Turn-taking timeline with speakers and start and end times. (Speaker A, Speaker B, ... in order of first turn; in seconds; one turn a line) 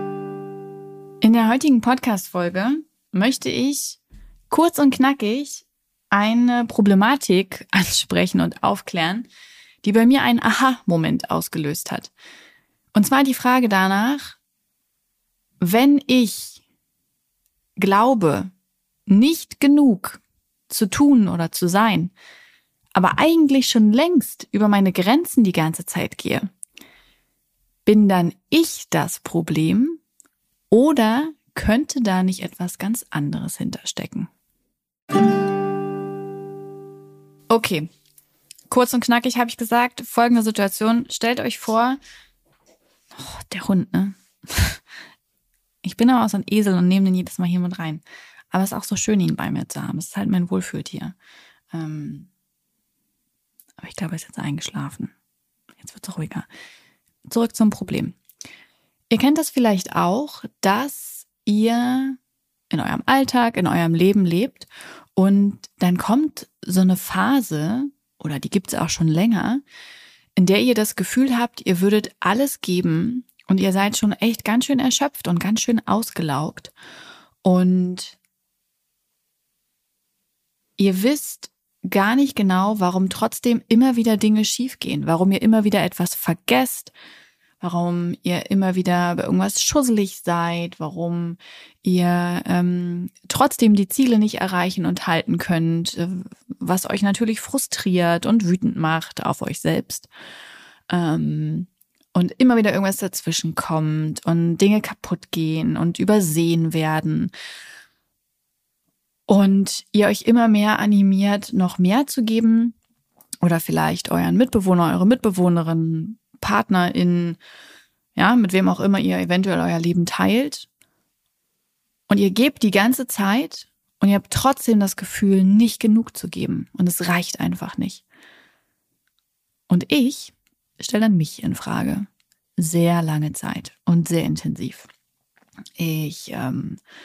Speaker A: 1.2-9.3
Speaker A: 9.8-12.1
Speaker A: 12.9-14.4
Speaker A: 15.6-16.6
Speaker A: 17.8-18.5
Speaker A: 19.1-22.1
Speaker A: 22.9-26.5
Speaker A: 27.9-30.0
Speaker A: 30.7-34.3
Speaker A: 37.5-37.9
Speaker A: 38.7-42.0
Speaker A: 43.1-44.8
Speaker A: 45.8-51.1
Speaker A: 51.7-52.3
Speaker A: 53.8-55.1
Speaker A: 55.8-56.5
Speaker A: 57.3-58.1
Speaker A: 59.1-62.2
Speaker A: 62.7-69.6
Speaker A: 70.4-76.7
Speaker A: 77.4-78.2
Speaker A: 80.8-86.9
Speaker A: 87.6-100.1
Speaker A: 100.9-107.3
Speaker A: 109.3-112.8
Speaker A: 113.4-117.4
Speaker A: 118.1-120.7
Speaker A: 122.1-128.0
Speaker A: 129.7-134.9
Speaker A: 135.8-136.8